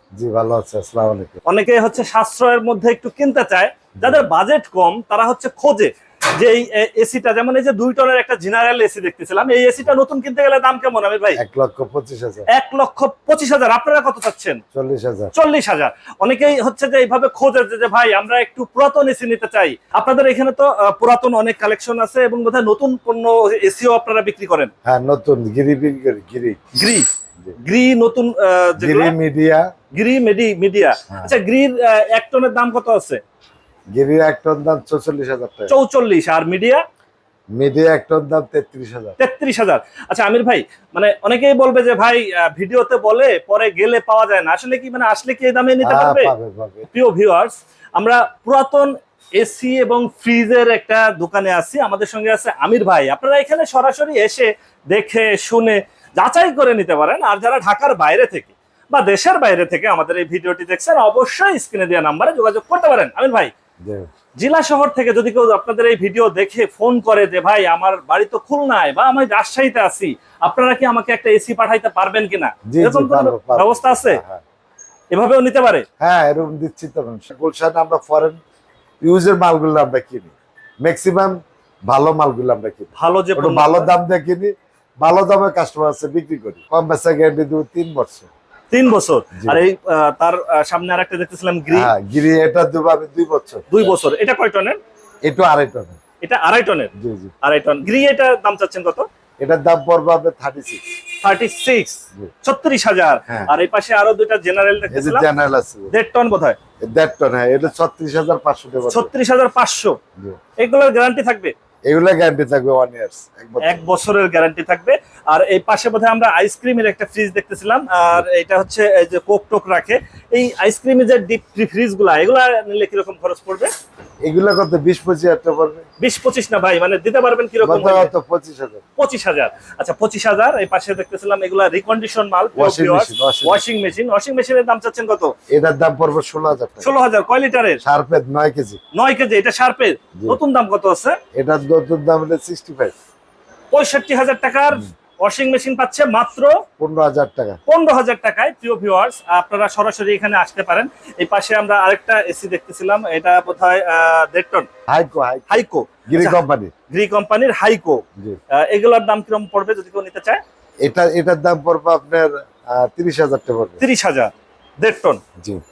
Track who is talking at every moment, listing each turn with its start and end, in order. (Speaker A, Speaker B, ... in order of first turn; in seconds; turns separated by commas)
Speaker A: 0.2-1.4, Speaker B: 1.5-11.4, Speaker A: 4.0-4.3, Speaker A: 11.4-12.5, Speaker B: 12.5-14.6, Speaker A: 14.7-15.3, Speaker B: 15.3-24.7, Speaker A: 24.9-26.6, Speaker B: 26.8-27.1, Speaker B: 27.6-29.1, Speaker A: 28.8-29.7, Speaker B: 29.9-33.2, Speaker A: 34.0-35.7, Speaker B: 35.7-36.8, Speaker A: 37.5-39.2, Speaker B: 39.2-46.3, Speaker A: 45.8-46.9, Speaker B: 46.9-63.5, Speaker B: 64.4-74.2, Speaker A: 72.7-74.4, Speaker B: 75.1-75.8, Speaker A: 76.0-78.4, Speaker A: 79.0-88.3, Speaker B: 83.0-83.9, Speaker B: 88.7-91.9, Speaker A: 91.7-93.9, Speaker B: 93.7-94.8, Speaker A: 95.2-96.0, Speaker B: 96.2-96.9, Speaker A: 97.0-97.3, Speaker B: 97.4-99.1, Speaker A: 99.4-100.8, Speaker B: 101.2-105.3, Speaker A: 103.3-103.5, Speaker A: 104.9-105.9, Speaker B: 105.9-106.6, Speaker A: 106.8-109.1, Speaker B: 108.9-110.0, Speaker B: 110.6-111.5, Speaker A: 111.9-113.8, Speaker B: 113.6-123.7, Speaker A: 124.3-125.8, Speaker B: 126.0-128.1, Speaker A: 127.6-128.8, Speaker B: 129.0-135.3, Speaker A: 132.6-133.6, Speaker A: 135.5-136.9, Speaker B: 136.8-137.8, Speaker A: 137.8-138.8, Speaker B: 138.9-141.2, Speaker A: 141.4-142.9, Speaker B: 143.7-146.6, Speaker A: 146.8-147.6, Speaker B: 147.7-154.7, Speaker A: 154.9-156.7, Speaker B: 155.5-160.4, Speaker A: 160.8-163.8, Speaker B: 163.8-165.2